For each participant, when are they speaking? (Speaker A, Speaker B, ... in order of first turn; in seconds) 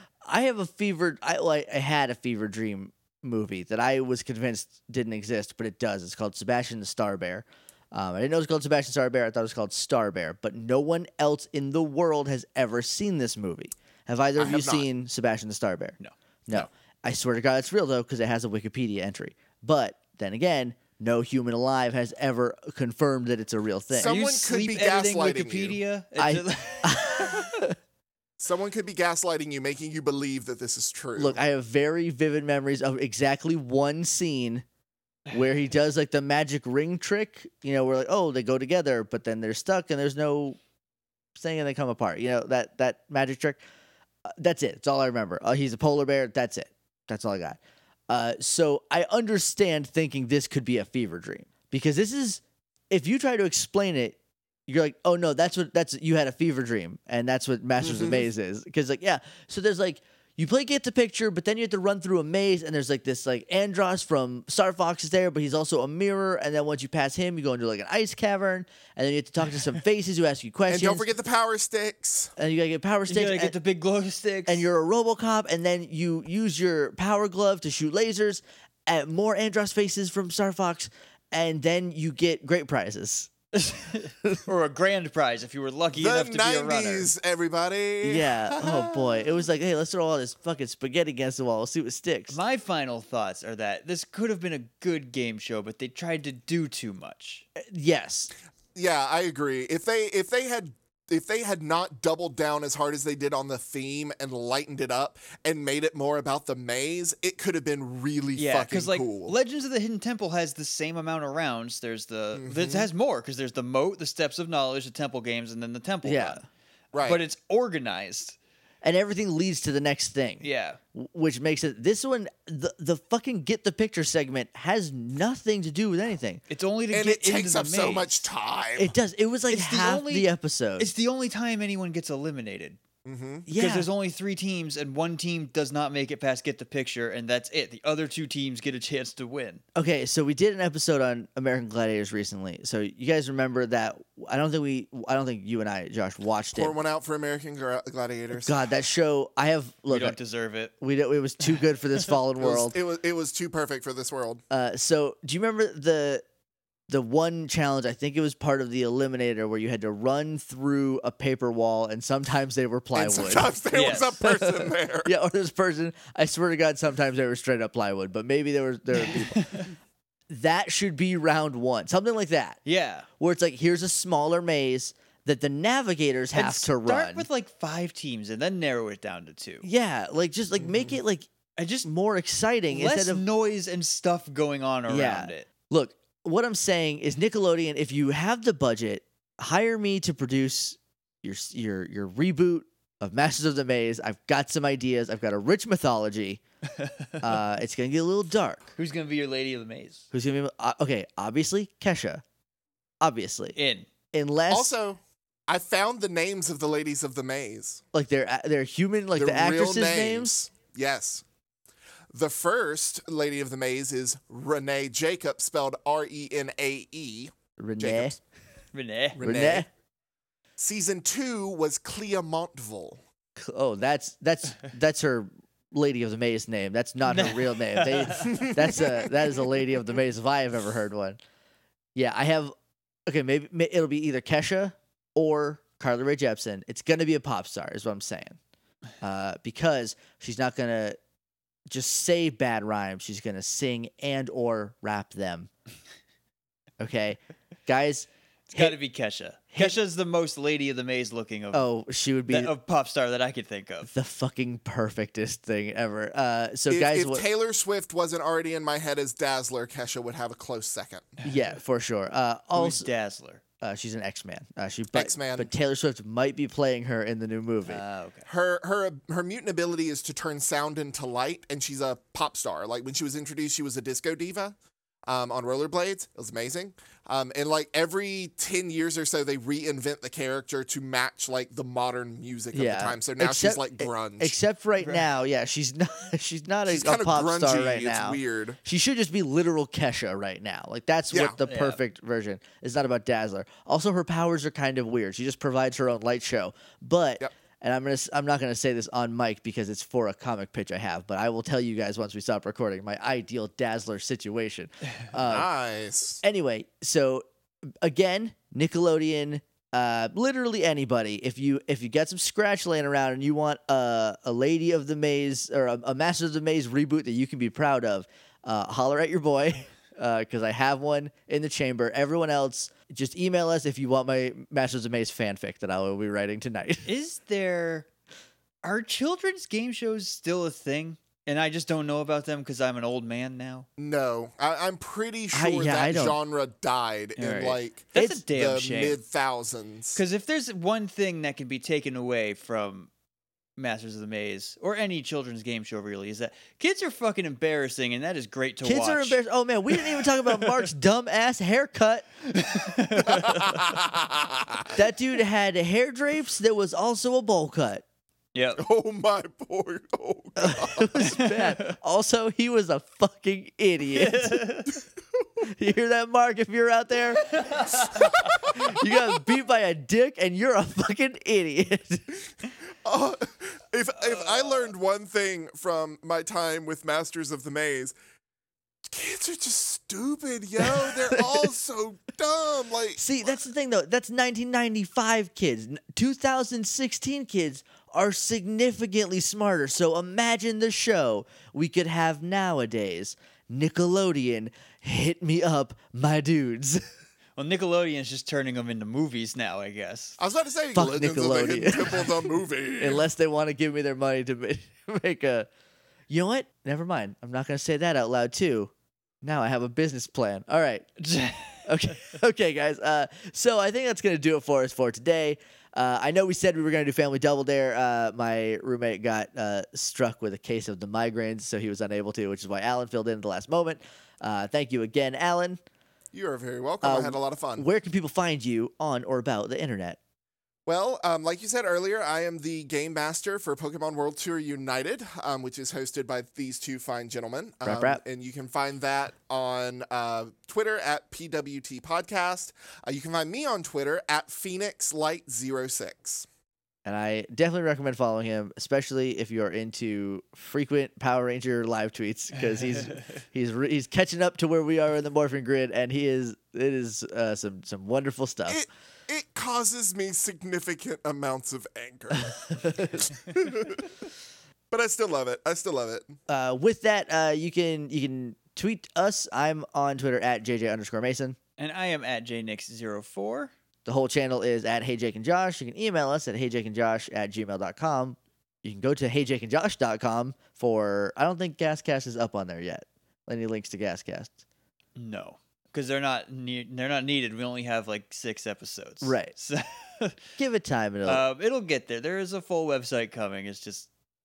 Speaker A: 0.2-24.2, 26.2-27.8, 31.2-34.6, 35.3-40.6, 41.4-43.6, 44.3-71.0, 72.4-73.5, 74.5-83.3, 88.0-92.4, 97.6-98.3, 116.0-116.4, 118.8-126.4, 128.8-130.9, 133.5-133.9, 139.8-146.8, 148.4-150.2, 150.8-152.8, 154.5-156.2, 156.9-163.5, 164.2-169.7, 170.3-172.6, 173.2-177.3, 179.6-181.3, 181.8-183.2, 184.9-196.4, 197.2-198.7, 200.1-202.2, 203.0-203.6, 204.1-204.8, 207.9-210.4, 217.6-218.2, 219.2-219.7, 223.4-231.2, 231.9-232.5, 233.1-238.4, 239.0-241.0, 241.7-245.5, 246.8-248.8, 249.5-249.8, 251.5-252.5, 253.9-257.2, 261.2-262.9, 263.6-267.8, 282.5-305.5, 306.2-307.2, 307.8-326.9, 335.3-336.2, 337.2-338.2, 348.6-352.1, 354.8-357.8, 360.4-364.6, 365.4-372.1, 380.6-381.5, 383.0-396.8, 400.8-402.3, 402.8-405.5, 406.1-411.0, 411.6-425.6, 426.8-430.0, 437.6-438.0, 446.9-458.6, 462.6-463.0, 466.3-471.4, 473.9-484.4, 489.0-489.3, 490.4-491.2
Speaker B: 14.4-14.9, 23.9-25.8, 28.4-31.4, 57.8-58.3, 70.7-72.3, 86.0-89.3, 98.8-109.3, 112.3-112.9, 116.9-117.2, 126.9-128.9, 133.1-133.5, 146.5-148.6, 152.4-154.4, 162.9-165.1, 180.6-180.9, 204.5-207.8, 209.2-211.2, 212.1-218.2, 219.2-219.7, 220.6-223.0, 228.4-229.1, 256.7-261.2, 264.9-265.5, 268.3-274.6, 275.1-284.4, 286.7-288.6, 291.1-291.4, 305.2-306.2, 333.8-340.0, 353.1-354.8, 358.6-361.0, 368.2-368.6, 372.9-377.9, 378.9-383.0, 400.2-403.1, 426.1-427.7, 430.7-446.3, 458.5-463.9, 464.7-466.1
Speaker C: 16.0-16.7, 24.0-27.6, 73.1-74.7, 83.5-87.1, 92.3-97.5, 108.4-116.4, 117.0-118.4, 120.4-120.8, 126.5-128.3, 129.5-132.8, 133.6-139.6, 149.9-150.7, 163.7-164.2, 169.1-169.7, 172.7-173.1, 176.3-179.7, 181.6-181.9, 182.7-185.5, 196.8-197.2, 198.8-200.1, 203.6-203.9, 218.7-219.2, 227.1-228.5, 248.5-251.7, 252.3-253.9, 262.6-263.4, 267.7-268.3, 284.8-285.1, 291.4-291.8, 326.9-327.9, 328.6-333.7, 337.9-339.0, 339.9-342.9, 343.6-349.2, 349.7-350.6, 352.3-353.7, 358.3-358.6, 360.9-361.8, 363.9-364.8, 367.3-368.3, 374.0-374.7, 397.4-400.2, 411.0-411.7, 471.6-473.5, 485.0-490.2, 491.1-493.9